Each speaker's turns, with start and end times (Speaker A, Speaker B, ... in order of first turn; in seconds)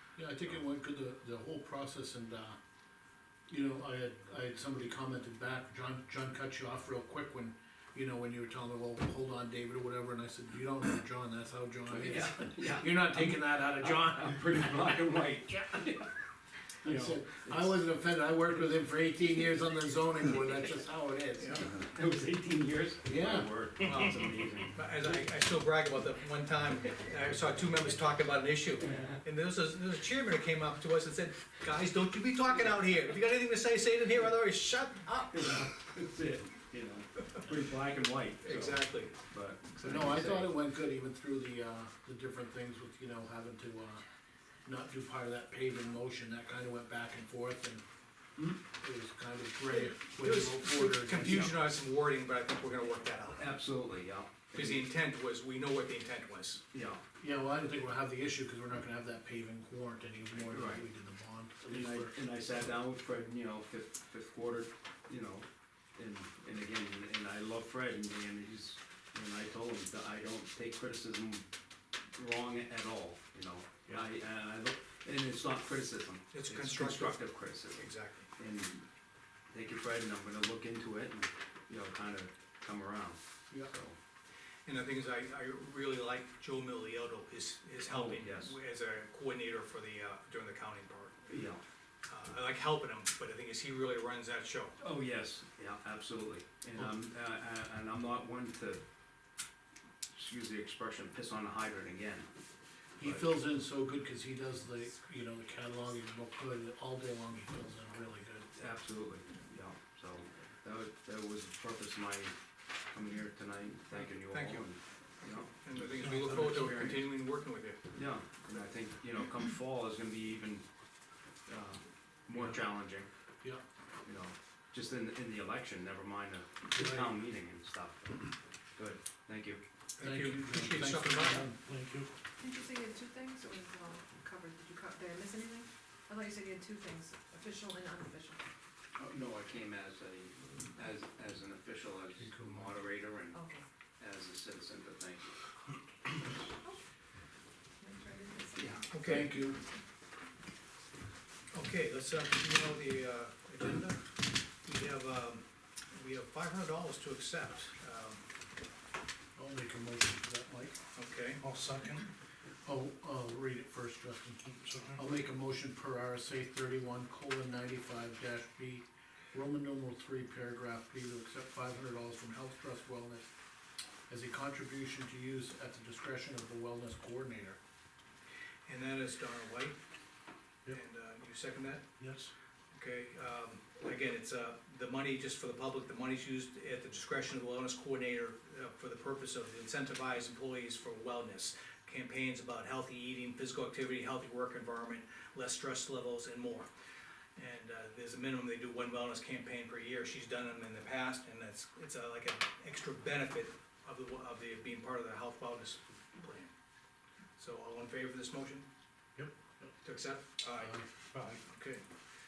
Speaker A: 0.1-2.5, 3.5-14.4, 16.8-21.6, 23.0-23.5, 39.8-44.0, 44.6-47.8, 48.6-51.6, 57.2-62.1, 103.0-108.5, 126.7-127.2, 130.0-132.0, 142.2-142.7, 149.0-149.6, 159.3-160.8, 162.6-164.4, 164.9-173.2, 174.1-177.6
Speaker B: 11.9-16.1, 16.8-17.7, 21.5-24.7, 28.9-29.2, 35.3-40.5, 53.4-54.8, 56.7-57.0, 60.3-60.9, 61.7-71.4, 72.1-78.8, 79.5-84.0, 87.8-88.5, 91.3-91.6, 94.8-98.8, 100.1-102.3, 103.0-103.2, 108.5-112.3, 112.9-117.1, 118.0-120.7, 121.5-123.1, 124.0-129.6, 139.0-143.4, 144.0-145.4, 148.6-148.8
Speaker C: 21.4-21.6, 23.8-35.6, 38.4-39.1, 49.7-53.5, 54.5-56.6, 76.3-78.3, 84.7-91.2, 92.1-94.8, 113.9-114.7, 115.6-117.8, 130.0-131.5, 148.9-149.3, 151.5-154.1, 154.6-158.2, 160.9-161.4, 178.7-179.8, 180.7-181.9, 182.7-196.7, 197.3-206.5, 207.4-208.6, 209.8-211.8
Speaker D: 116.0-116.8, 161.4-162.1, 164.4-165.0, 182.0-182.3, 211.1-211.4
Speaker E: 132.4-138.4, 143.3-143.6, 147.8-148.8